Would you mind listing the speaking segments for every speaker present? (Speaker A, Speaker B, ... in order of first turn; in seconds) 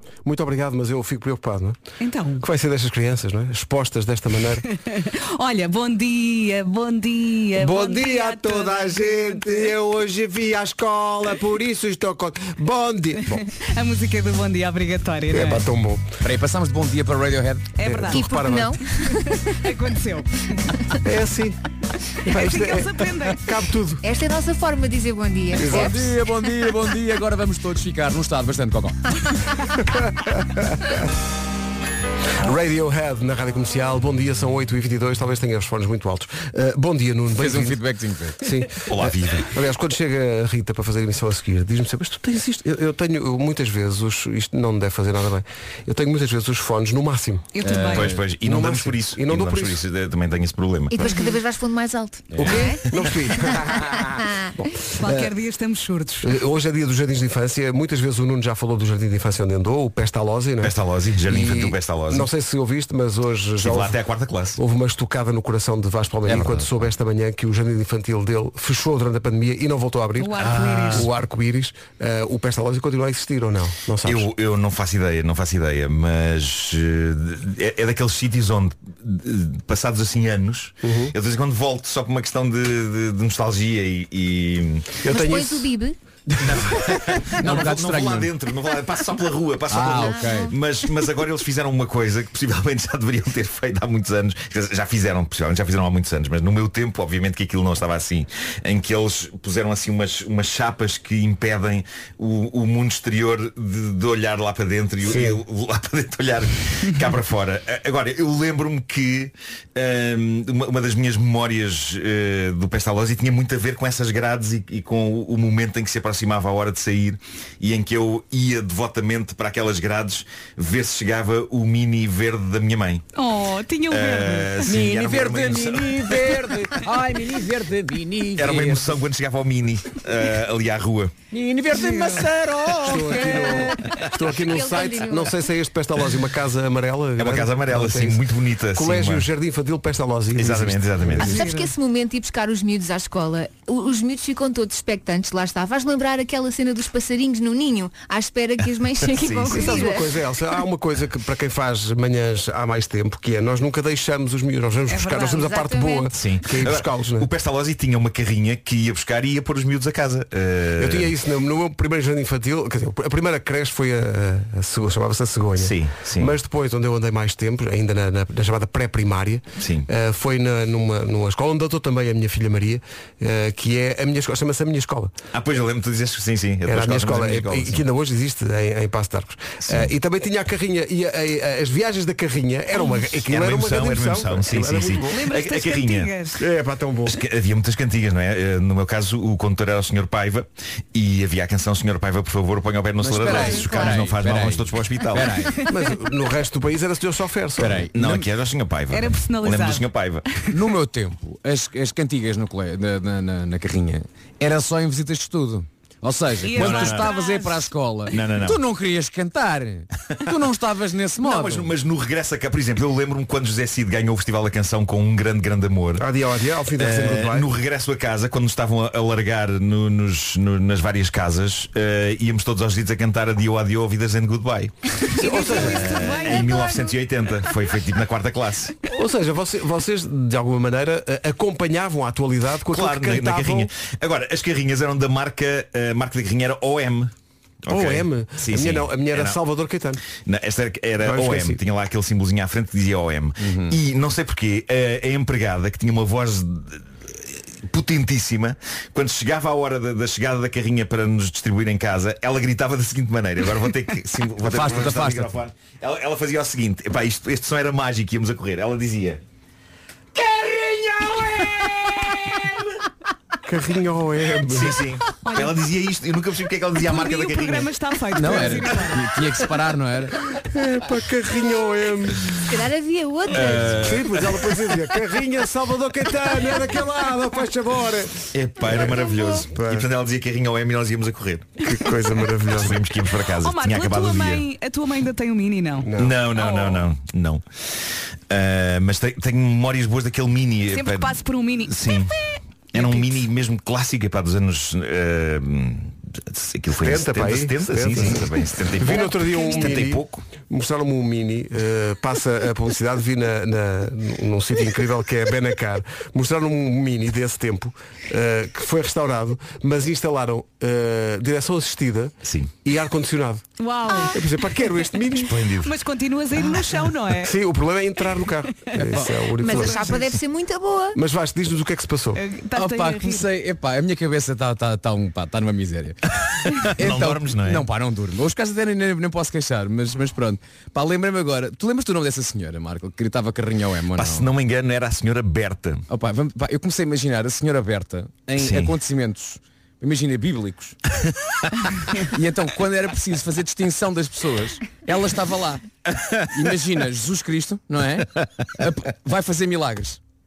Speaker A: 0.2-1.8, 2.4-4.6, 7.6-13.4, 15.3-16.1, 17.8-18.8, 21.0-21.6, 22.2-24.0, 25.6-26.0, 29.9-31.1, 32.4-37.8, 38.4-47.5, 48.4-49.8, 52.4-54.0, 54.5-55.3, 56.2-64.0, 64.6-74.3, 80.8-81.2, 85.0-85.7, 105.0-105.4, 132.8-138.2, 138.7-141.5, 149.5-157.3, 160.8-175.1, 176.7-185.2, 186.4-187.2, 195.7-197.9, 216.0-217.5, 225.2-226.3, 228.8-233.7, 237.7-240.0, 241.0-241.6, 263.4-264.8, 270.4-272.4, 273.8-279.9, 281.6-282.9, 285.8-286.2, 296.8-313.4, 314.0-315.4, 317.1-320.0, 320.9-322.2
Speaker B: 2.0-2.5, 4.7-9.7, 13.5-15.7, 17.8-20.8, 22.2-23.5, 47.5-48.1, 54.9-56.3, 70.2-71.1, 123.2-124.7, 131.7-132.3, 141.2-141.7, 154.9-155.5, 185.0-186.4, 193.3-193.7, 198.9-199.9, 206.4-207.7, 225.1-227.0, 265.2-265.6, 266.8-269.1, 283.4-286.9, 290.7-291.8, 292.7-293.2, 299.2-299.7, 313.6-314.2, 315.6-317.3, 322.1-323.3
Speaker C: 16.2-17.7, 25.6-29.0, 37.4-38.5, 47.6-48.2, 66.3-66.7, 87.2-88.3, 89.7-90.6, 124.7-129.0, 131.3-133.7, 193.0-195.7, 197.6-198.3, 200.5-211.7, 243.4-243.8, 254.4-255.3, 268.1-270.2, 318.8-319.1, 322.6-326.0, 326.6-334.3, 335.9-340.8, 341.9-345.6, 346.3-350.0
Speaker D: 18.1-19.6, 24.0-26.2, 50.9-52.9, 53.4-54.5, 85.1-86.0, 90.0-90.5, 133.4-133.7, 134.2-135.4, 141.2-150.1, 155.3-156.1, 272.4-274.0, 319.4-321.0
Speaker E: 38.9-39.5, 47.9-51.2, 60.6-62.3, 63.6-64.6, 70.4-71.1, 74.0-85.0, 86.4-123.0, 123.9-126.4, 128.4-131.2, 137.2-139.3, 140.4-141.4, 149.0-149.9, 156.1-161.1, 165.6-166.3, 169.6-169.9, 175.3-177.8, 183.2-186.2, 187.1-195.5, 197.9-200.3, 206.6-207.1, 208.1-208.6, 211.2-216.1, 216.8-224.7, 225.4-228.8, 232.7-237.1, 237.7-239.4, 240.2-259.2, 264.5-267.7, 273.3-274.6, 278.3-281.8, 282.5-284.4, 286.0-287.4, 288.3-292.2, 292.7-300.2, 312.2-312.5, 315.2-315.7, 326.6-327.7, 333.9-335.9, 338.4-338.7